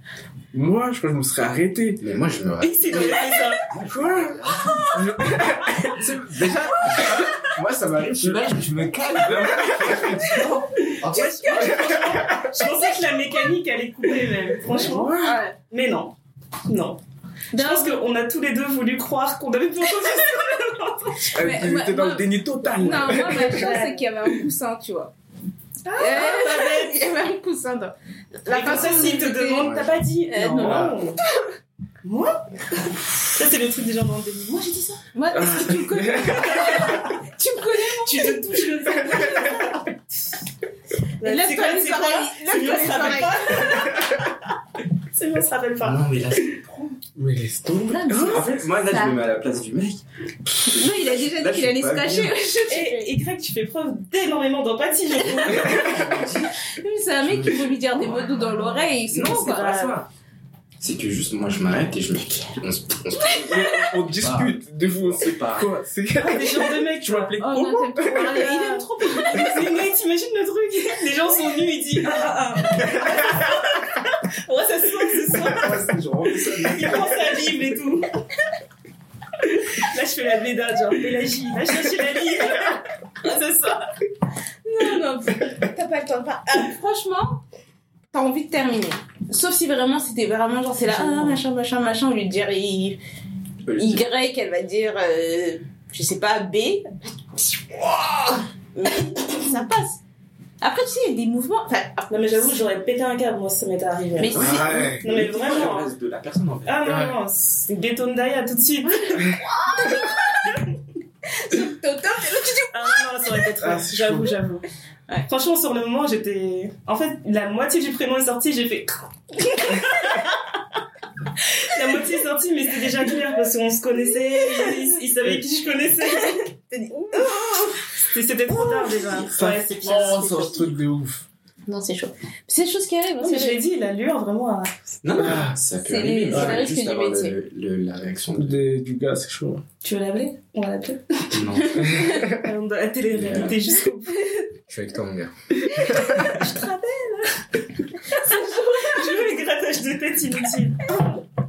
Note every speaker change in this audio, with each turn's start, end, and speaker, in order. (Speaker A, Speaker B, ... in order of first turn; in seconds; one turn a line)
Speaker A: 0.5-2.0
Speaker B: 2.0-5.0
Speaker C: 2.6-3.6
Speaker A: 4.4-6.0
Speaker B: 5.9-11.8
Speaker A: 9.1-10.4
Speaker C: 11.0-16.1
Speaker A: 14.7-15.4
Speaker D: 15.2-15.6
Speaker C: 16.7-17.0
Speaker D: 17.5-18.0
Speaker C: 17.5-21.3
Speaker A: 21.3-23.6
Speaker D: 21.3-25.1
Speaker C: 23.0-24.1
Speaker C: 25.9-27.0
Speaker D: 26.0-31.0
Speaker C: 28.5-31.2
Speaker A: 30.6-30.9
Speaker C: 32.0-35.0
Speaker D: 35.1-38.4
Speaker A: 35.5-36.4
Speaker C: 36.2-40.0
Speaker C: 41.2-44.3
Speaker D: 41.2-43.9
Speaker C: 45.1-46.0
Speaker B: 45.8-46.9
Speaker A: 47.2-48.5
Speaker D: 47.9-49.2
Speaker B: 48.1-50.0
Speaker B: 50.5-52.3
Speaker D: 50.6-53.1
Speaker C: 52.7-56.1
Speaker B: 55.5-56.5
Speaker D: 56.8-59.7
Speaker B: 57.2-60.1
Speaker C: 59.4-60.0
Speaker B: 60.8-65.7
Speaker A: 63.3-68.4
Speaker C: 66.2-67.4
Speaker D: 67.4-69.2
Speaker C: 68.1-75.9
Speaker A: 75.5-77.2
Speaker C: 76.4-78.1
Speaker C: 79.4-83.9
Speaker D: 84.7-87.4
Speaker D: 88.1-93.0
Speaker C: 90.9-91.4
Speaker B: 93.6-94.0
Speaker D: 93.8-100.0
Speaker D: 100.6-102.5
Speaker C: 102.1-104.4
Speaker D: 104.2-104.9
Speaker B: 104.3-107.1
Speaker A: 104.4-105.0
Speaker C: 105.0-105.9
Speaker C: 106.7-109.4
Speaker A: 106.9-107.1
Speaker D: 109.3-110.4
Speaker D: 111.3-113.1
Speaker C: 112.7-114.7
Speaker A: 113.6-114.3
Speaker C: 115.3-120.4
Speaker C: 121.6-126.6
Speaker D: 124.5-124.9
Speaker D: 126.3-127.8
Speaker C: 127.1-130.7
Speaker A: 129.3-131.2
Speaker D: 131.7-133.6
Speaker C: 133.2-135.3
Speaker B: 135.0-138.6
Speaker D: 135.8-137.3
Speaker A: 136.3-136.7
Speaker A: 138.4-139.6
Speaker C: 139.8-144.4
Speaker B: 141.3-142.3
Speaker D: 141.8-142.2
Speaker B: 143.2-143.6
Speaker B: 144.7-145.3
Speaker C: 145.8-151.2
Speaker D: 148.3-148.7